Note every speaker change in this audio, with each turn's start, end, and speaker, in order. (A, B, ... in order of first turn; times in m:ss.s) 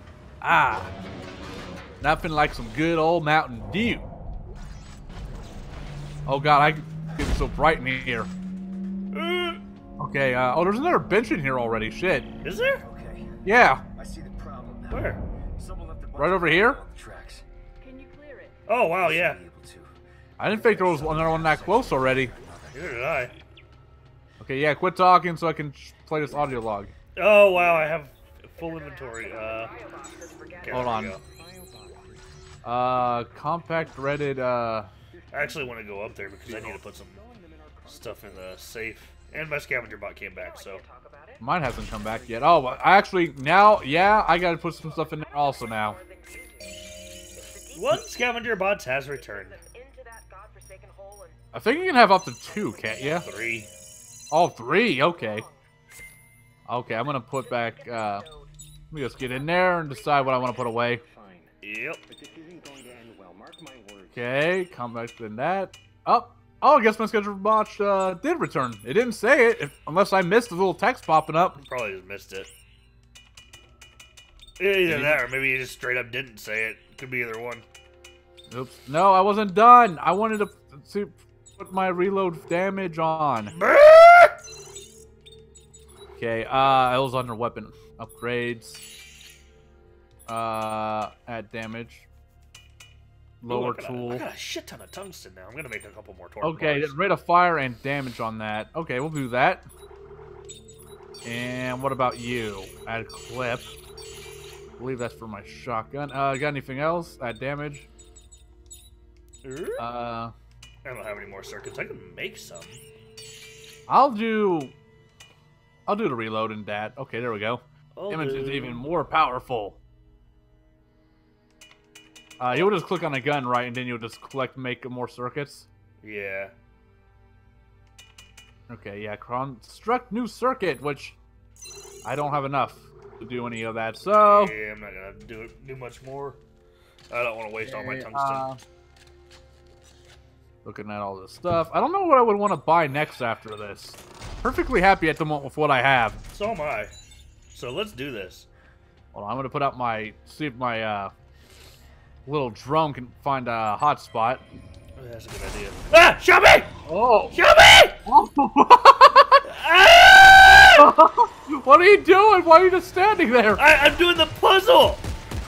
0:00.4-0:00.9 A
0:02.0-0:04.0 A
0:06.3-0:08.3 A
0:09.1-0:09.6 B
0:10.0-0:12.3 A
0:12.4-0:12.8 B
0:12.8-0:13.3 C
0:13.4-0:13.8 A
0:13.9-0:17.4 C
0:14.9-0:15.2 B
0:16.2-0:16.8 A
0:17.8-0:18.7 D
0:18.7-0:19.4 B
0:18.9-0:23.2 C
0:20.4-0:22.3 A
0:22.7-0:23.3 B
0:24.4-0:26.9 A
0:27.2-0:29.7 B
0:28.6-0:31.1 D
0:30.6-0:31.2 B
0:30.7-0:31.1 A
0:31.1-0:32.3 E
0:32.6-0:34.9 A
0:32.8-0:34.5 E
0:35.1-0:38.8 E
0:35.3-0:37.2 B
0:37.9-0:40.8 B
0:40.3-0:41.5 D
0:41.4-0:46.0 A
0:41.7-0:42.8 E
0:44.4-0:48.1 D
0:47.7-0:49.6 B
0:49.1-0:51.8 D
0:51.5-0:53.3 A
0:52.4-0:53.3 D
0:53.2-0:53.7 B
0:54.3-0:55.4 A
0:54.8-0:55.6 D
0:56.7-0:58.2 A
0:57.3-0:58.5 D
0:58.9-1:01.0 A
0:59.2-1:00.8 D
1:00.3-1:01.5 E
1:01.6-1:02.0 B
1:02.1-1:04.6 E
1:04.1-1:11.6 A
1:11.6-1:12.5 B
1:14.6-1:17.6 B
1:14.9-1:15.2 A
1:18.5-1:23.6 A
1:23.5-1:24.4 B
1:26.2-1:28.8 A
1:30.3-1:32.1 A
1:33.4-1:34.2 A
1:33.5-1:37.0 B
1:36.4-1:39.6 A
1:41.2-1:43.7 A
1:44.8-1:47.9 A
1:49.4-1:49.9 B
1:49.8-1:50.3 A
1:50.8-1:52.8 B
1:53.9-1:54.7 A
1:55.9-1:59.8 A
1:58.0-1:58.8 B
2:02.4-2:05.7 A
2:06.0-2:06.5 B
2:08.7-2:11.2 A
2:12.0-2:14.5 A
2:14.2-2:16.4 B
2:17.1-2:18.5 B
2:17.6-2:18.6 A
2:20.6-2:26.2 A
2:26.3-2:26.9 B
2:27.5-2:28.5 B
2:29.1-2:31.1 A
2:32.3-2:34.4 A
2:35.0-2:36.7 B
2:36.9-2:37.4 A
2:37.3-2:38.0 B
2:38.0-2:39.4 A
2:39.4-2:40.9 B
2:40.8-2:43.6 A
2:43.6-2:45.0 B